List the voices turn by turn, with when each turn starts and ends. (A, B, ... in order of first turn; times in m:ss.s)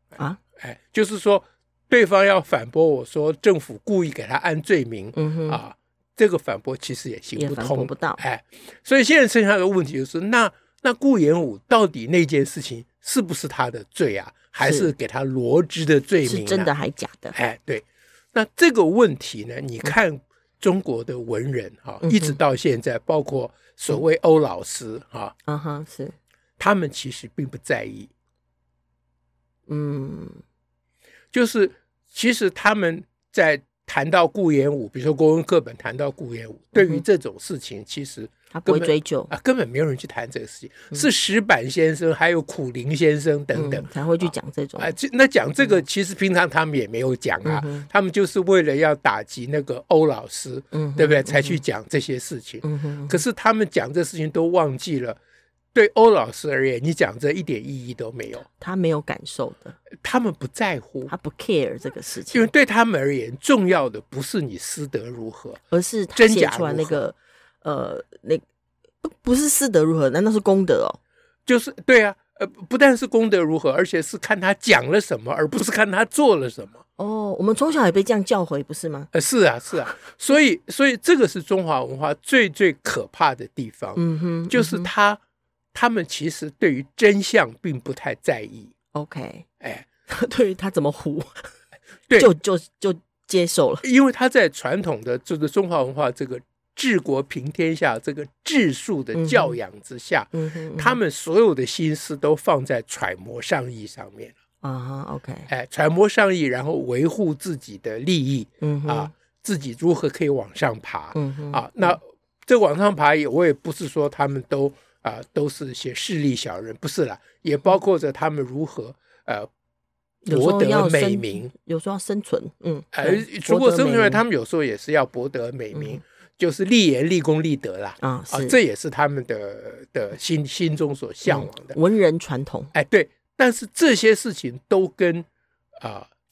0:00.6-0:16.7 A
0:05.1-0:05.6 B
0:07.4-0:08.2 B
0:14.6-0:14.9 B
0:16.2-0:17.4 B
0:17.3-0:25.3 A
0:22.0-0:22.4 B
0:25.5-0:26.1 B
0:26.6-0:28.1 A
0:29.7-0:30.4 B
0:31.3-0:43.8 A
0:36.8-0:37.0 B
0:38.5-0:39.3 B
0:43.5-0:44.9 B
0:44.8-0:55.2 A
0:47.4-0:47.9 B
0:50.7-0:51.6 B
0:52.6-0:53.2 B
0:55.7-0:58.4 A
0:58.6-0:59.8 B
1:00.0-1:01.1 A
1:01.1-1:02.5 B
1:02.3-1:05.6 A
1:05.7-1:08.4 B
1:06.1-1:07.0 A
1:09.0-1:11.0 B
1:11.4-1:16.8 A
1:17.0-1:19.1 B
1:19.1-1:25.2 A
1:24.0-1:24.9 B
1:25.7-1:28.7 A
1:28.9-1:29.4 B
1:29.6-1:29.8 A
1:30.1-1:31.5 B
1:32.2-1:33.8 B
1:33.8-1:44.3 A
1:39.1-1:39.6 B
1:40.3-1:41.0 B
1:44.6-1:45.5 B
1:45.5-1:59.5 A
1:48.6-1:49.1 B
1:51.1-1:52.0 B
2:00.2-2:01.5 A
2:00.3-2:04.2 B
2:02.9-2:11.8 A
2:05.7-2:06.0 B
2:08.0-2:08.6 B
2:11.2-2:12.7 B
2:12.7-2:15.3 A
2:15.8-2:16.1 A